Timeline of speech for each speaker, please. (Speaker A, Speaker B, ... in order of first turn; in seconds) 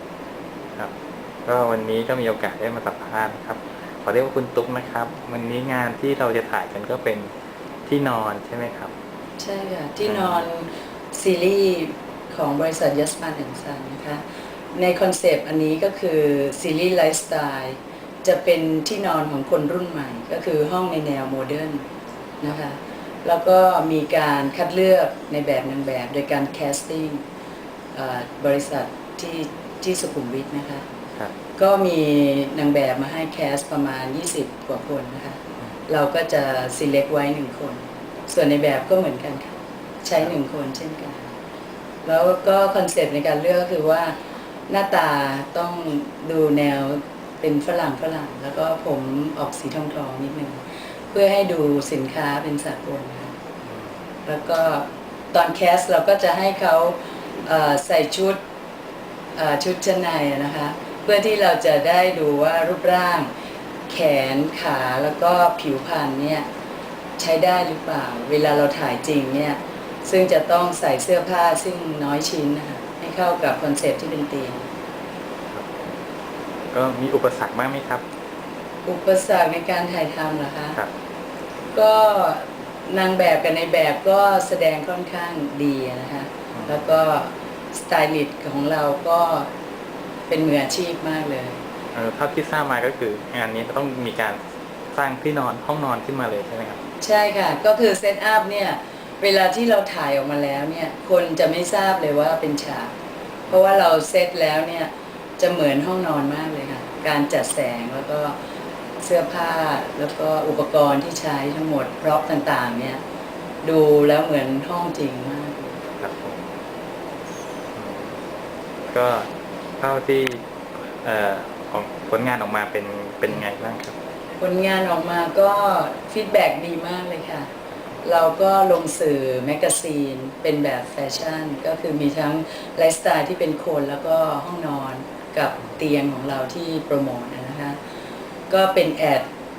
Speaker A: 1.4-7.3, 7.8-8.9, 10.0-10.4, 75.5-75.9, 76.7-78.0, 86.5-86.8, 91.9-94.4, 94.9-96.8, 116.0-116.4, 117.7-118.2, 118.9-119.3, 119.8-120.5, 121.0-124.0
Speaker B: 9.4-14.2, 14.7-21.8, 22.4-27.2, 27.9-30.9, 31.6-39.5, 40.0-41.3, 42.0-44.1, 44.7-53.4, 54.2-58.4, 59.4-63.3, 63.9-66.5, 67.2-74.7, 78.9-80.8, 81.7-89.5, 90.3-91.6, 97.0-102.9, 103.5-108.3, 109.0-113.0, 113.6-115.8, 124.4-127.5, 128.0-137.8, 138.5-139.3